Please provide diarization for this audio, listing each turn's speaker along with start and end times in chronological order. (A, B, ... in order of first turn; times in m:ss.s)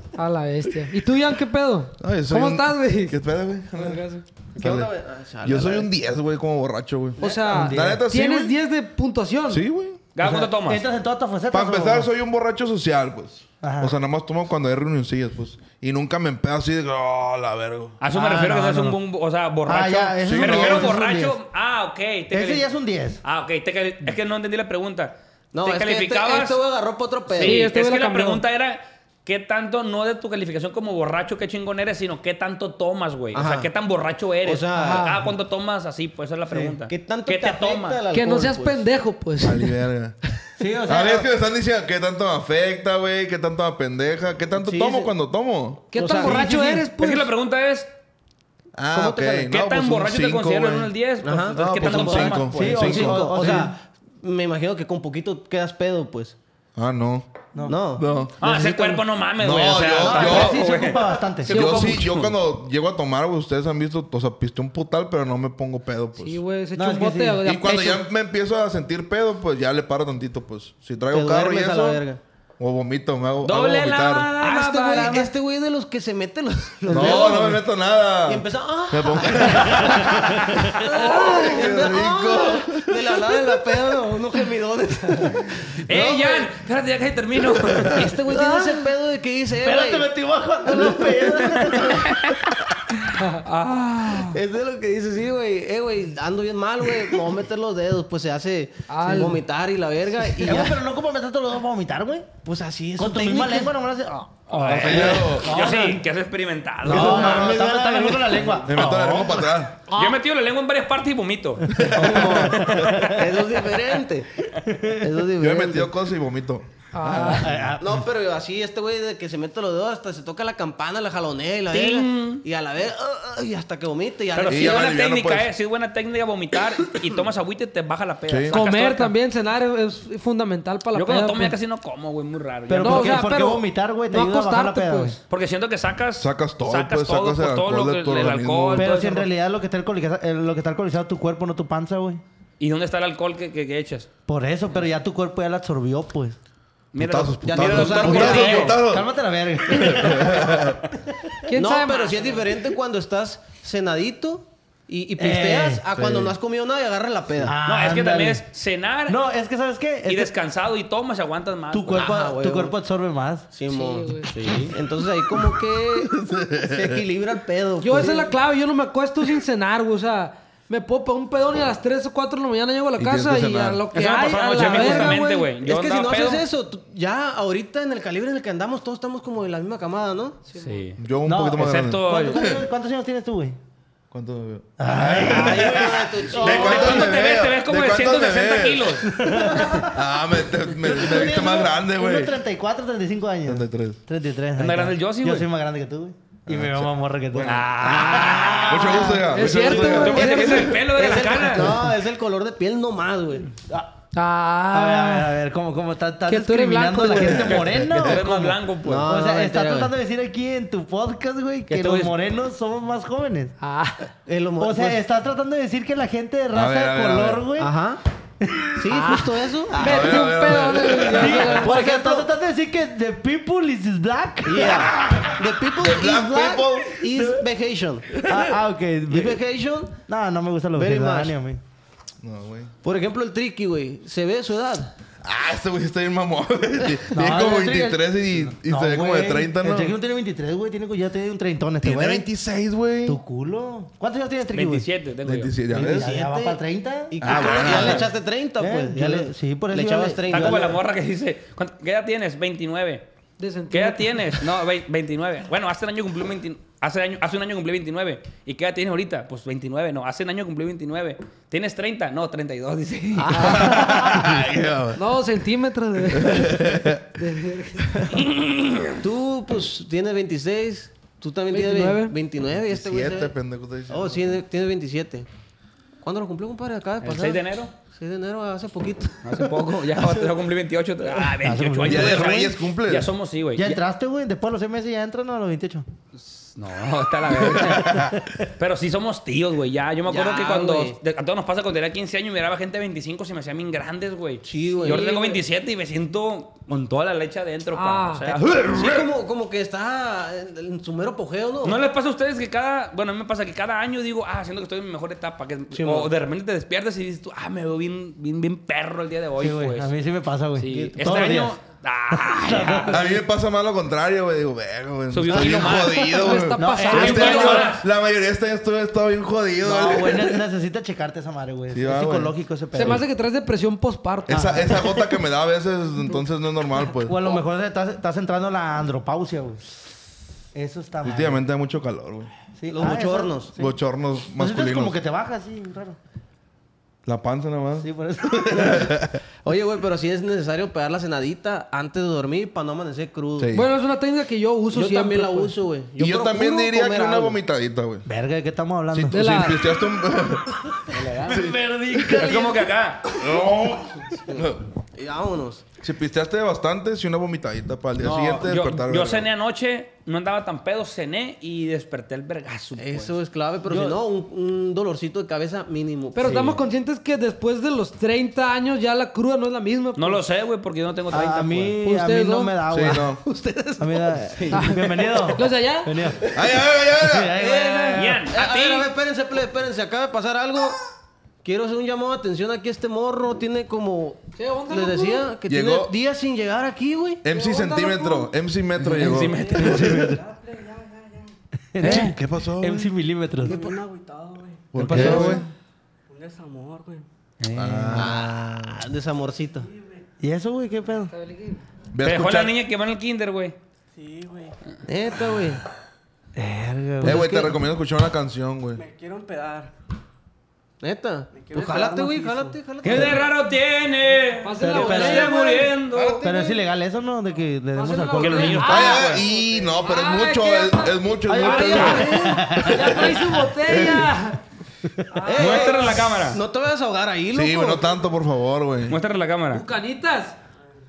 0:00.2-0:03.2 A
0:02.0-0:04.1 B
0:03.8-0:04.2 A
0:04.6-0:05.9 C
0:04.6-0:04.9 B
0:05.4-0:08.6 B
0:07.2-0:09.6 A
0:07.2-0:07.5 C
0:07.5-0:08.0 D
0:09.5-0:10.0 B
0:10.2-0:10.8 E
0:10.2-0:12.1 D
0:11.5-0:18.0 B
0:13.6-0:14.0 D
0:18.0-0:22.7 E
0:18.1-0:19.0 D
0:19.7-0:21.4 D
0:20.2-0:21.0 B
0:22.3-0:23.2 D
0:23.2-0:26.6 E
0:25.5-0:27.7 C
0:27.3-0:38.0 E
0:27.4-0:28.4 A
0:33.3-0:33.7 C
0:34.4-0:35.1 C
0:34.7-0:35.3 A
0:36.5-0:36.8 D
0:36.9-0:38.8 C
0:38.1-0:39.8 A
0:39.4-0:40.2 B
0:40.6-0:41.3 D
0:40.9-0:46.5 B
0:44.5-0:45.1 C
0:45.9-0:47.3 A
0:45.9-0:46.8 C
0:47.0-0:47.9 E
0:48.8-0:50.9 B
0:48.9-0:49.5 C
0:49.5-0:52.5 E
0:51.2-0:56.4 C
0:51.5-0:53.7 B
0:52.5-0:53.8 D
0:56.8-0:57.3 B
0:57.6-0:58.8 C
0:58.0-0:58.4 B
0:58.4-1:02.3 E
0:59.4-1:00.7 B
1:00.0-1:01.9 D
1:01.5-1:06.4 B
1:06.2-1:08.0 A
1:06.8-1:07.4 D
1:07.4-1:12.0 B
1:11.1-1:12.2 C
1:12.6-1:14.3 B
1:13.4-1:15.3 E
1:14.4-1:17.6 C
1:16.9-1:17.4 D
1:16.9-1:23.4 B
1:18.3-1:20.2 C
1:19.4-1:21.4 D
1:20.5-1:20.8 E
1:20.8-1:26.5 C
1:25.9-1:28.2 E
1:27.9-1:30.1 C
1:28.3-1:28.9 D
1:29.6-1:32.4 D
1:30.6-1:32.0 C
1:32.0-1:32.4 E
1:33.4-1:34.4 E
1:34.3-1:40.8 C
1:38.9-1:39.4 A
1:40.3-1:42.3 D
1:42.4-1:43.7 C
1:43.0-1:46.0 D
1:44.5-1:47.4 E
1:44.7-1:45.6 B
1:46.8-1:49.6 D
1:46.9-1:49.8 B
1:46.9-1:48.6 C
1:49.9-1:50.2 A
1:49.9-1:51.7 E
1:51.7-1:52.9 B
1:51.8-1:53.2 D
1:51.9-1:54.4 C
1:54.6-1:55.2 D
1:55.0-1:55.9 C
1:55.4-1:57.7 B
1:56.9-1:57.5 A
1:57.1-1:58.1 D
1:57.8-2:05.0 C
2:01.7-2:02.4 E
2:04.3-2:09.1 E
2:04.5-2:05.5 B
2:08.3-2:08.6 B
2:08.5-2:11.6 A
2:10.9-2:13.3 E
2:12.7-2:15.2 D
2:12.8-2:15.2 A
2:15.3-2:19.3 E
2:16.2-2:18.9 B
2:18.8-2:22.2 D
2:22.6-2:24.1 E
2:24.3-2:26.4 D
2:26.9-2:28.7 E
2:27.0-2:29.1 B
2:27.4-2:28.8 C
2:28.1-2:31.4 D
2:29.7-2:30.8 B
2:31.5-2:32.4 A
2:31.5-2:37.6 C
2:35.2-2:35.9 D
2:35.9-2:36.3 B
2:37.4-2:38.4 D
2:37.7-2:39.2 E
2:39.1-2:40.3 D
2:40.1-2:42.1 E
2:41.7-2:43.5 D
2:42.0-2:42.7 C
2:43.5-2:48.3 C
2:43.7-2:44.3 A
2:44.3-2:44.7 E
2:46.1-2:46.8 B
2:47.8-2:55.5 A
2:53.0-2:53.8 B
2:53.9-2:56.4 E
2:54.6-3:00.4 C
3:00.5-3:00.9 A
3:00.6-3:01.0 E
3:01.0-3:02.6 B
3:01.2-3:03.6 D
3:01.6-3:02.4 E
3:04.1-3:09.1 B
3:04.8-3:07.1 D
3:05.3-3:07.3 C
3:05.4-3:05.8 E
3:06.5-3:09.1 E
3:09.0-3:10.1 D
3:09.8-3:12.4 B
3:10.7-3:20.4 D
3:13.5-3:14.0 B
3:14.6-3:15.5 E
3:16.5-3:20.5 B
3:17.4-3:21.8 E
3:19.3-3:20.8 A
3:20.4-3:23.5 C
3:24.1-3:25.4 A
3:24.7-3:33.5 D
3:26.3-3:27.5 A
3:27.4-3:28.0 B
3:27.4-3:29.1 E
3:28.8-3:29.9 C
3:31.7-3:32.1 E
3:33.6-3:34.1 A
3:34.3-3:35.0 C
3:34.6-3:37.7 D
3:36.5-3:37.4 B
3:37.6-3:38.0 C
3:38.4-3:39.0 D
3:38.8-3:40.2 C
3:38.9-3:39.3 A
3:39.7-3:40.2 D
3:39.8-3:41.6 B
3:39.8-3:41.8 A
3:41.2-3:44.9 D
3:41.5-3:42.2 C
3:44.4-3:48.2 C
3:44.6-3:47.0 B
3:46.1-3:46.6 D
3:47.1-3:47.4 D
3:48.2-3:49.4 D
3:49.1-3:50.0 C
3:50.0-3:51.6 D
3:50.8-3:51.4 C
3:52.2-3:52.7 B
3:52.8-3:54.9 C
3:55.2-4:00.0 B
3:57.1-4:02.3 D
4:01.8-4:03.2 B
4:03.0-4:04.9 D
4:04.5-4:05.5 E
4:05.2-4:06.1 B
4:05.7-4:06.6 C
4:05.7-4:10.8 D
4:07.1-4:10.8 C
4:07.2-4:08.1 B
4:10.3-4:13.0 E
4:13.4-4:14.4 A
4:13.7-4:23.6 E
4:23.2-4:23.5 C
4:23.3-4:24.3 A
4:23.4-4:25.0 B
4:25.0-4:28.2 A
4:26.1-4:27.1 B
4:28.2-4:29.0 E
4:29.0-4:33.3 C
4:31.5-4:32.2 A
4:32.7-4:34.4 B
4:33.9-4:35.3 C
4:36.0-4:39.5 C
4:37.0-4:37.7 E
4:39.2-4:43.8 E
4:41.2-4:42.6 D
4:41.8-4:43.1 B
4:43.6-4:45.9 D
4:46.2-4:48.0 E
4:47.5-4:48.3 D
4:47.5-4:48.2 B
4:48.6-4:59.1 E
4:50.1-4:51.0 C
4:54.4-4:55.1 C
4:54.8-4:55.4 A
4:57.8-4:58.4 A
4:58.7-5:01.8 C
5:01.6-5:09.9 E
5:05.7-5:06.1 C
5:09.4-5:11.6 D
5:10.6-5:13.0 E
5:10.7-5:11.3 C
5:12.1-5:13.2 D
5:12.9-5:20.4 B
5:15.1-5:16.2 E
5:15.3-5:16.0 C
5:16.2-5:17.6 A
5:16.6-5:17.8 D
5:16.9-5:17.9 E
5:19.6-5:23.0 D
5:21.7-5:23.0 B
5:22.8-5:24.8 A
5:24.3-5:27.2 B
5:26.9-5:29.6 D
5:30.5-5:31.4 D
5:31.0-5:32.3 B
5:32.6-5:33.8 D
5:32.7-5:33.5 C
5:33.6-5:35.0 B
5:34.4-5:36.0 D
5:37.1-5:39.2 B
5:37.8-5:39.0 D
5:39.4-5:43.5 C
5:43.4-5:43.7 B
5:43.5-5:45.5 A
5:44.7-5:47.4 C
5:46.0-5:48.1 B
5:48.1-5:49.2 D
5:48.9-5:52.4 B
5:49.1-5:49.6 A
5:50.9-5:51.5 E
5:51.0-5:52.7 D
5:52.1-5:53.0 E
5:53.1-5:54.6 B
5:54.3-5:55.6 C
5:55.8-5:59.3 B
5:58.0-6:03.2 E
6:02.8-6:06.4 C
6:03.7-6:04.0 D
6:06.2-6:10.2 A
6:06.3-6:06.6 D
6:10.0-6:11.8 E
6:11.1-6:13.2 D
6:11.8-6:12.6 A
6:12.7-6:13.2 B
6:13.0-6:15.4 C
6:13.8-6:18.2 D
6:14.5-6:15.9 A
6:16.3-6:17.4 B
6:17.4-6:20.8 C
6:18.0-6:18.9 E
6:21.4-6:27.2 C
6:24.4-6:25.3 A
6:25.5-6:25.9 B
6:27.2-6:30.1 B
6:27.3-6:28.3 A
6:28.8-6:29.8 E
6:29.1-6:31.3 F
6:29.6-6:30.2 D
6:31.7-6:33.8 D
6:31.8-6:32.9 B
6:33.4-6:35.2 F
6:34.7-6:35.5 B
6:34.8-6:35.4 D
6:34.9-6:35.4 C
6:36.1-6:37.0 F
6:37.4-6:38.1 E
6:37.6-6:38.8 B
6:37.9-6:39.7 C
6:39.7-6:40.0 F
6:40.2-6:41.1 D
6:41.1-6:41.6 A
6:41.9-6:42.5 B
6:42.0-6:43.6 E
6:43.9-6:44.6 F
6:44.9-6:45.6 C
6:46.4-6:47.5 D
6:47.0-6:47.6 C
6:47.0-6:48.8 B
6:48.8-6:49.7 F
6:50.8-6:53.3 C
6:51.3-6:52.6 F
6:52.8-6:56.2 E
6:54.4-6:55.8 A
6:54.6-6:55.4 D
6:55.9-6:56.6 B
6:56.2-6:58.9 D
6:57.8-7:04.4 A
6:58.2-6:59.2 E
6:58.7-7:04.1 B
6:59.3-6:59.8 F
7:01.3-7:03.3 D
7:01.7-7:02.0 E
7:05.1-7:06.1 A
7:05.2-7:07.9 C
7:05.3-7:06.4 E
7:07.3-7:09.0 B
7:08.9-7:09.6 E
7:09.5-7:10.4 A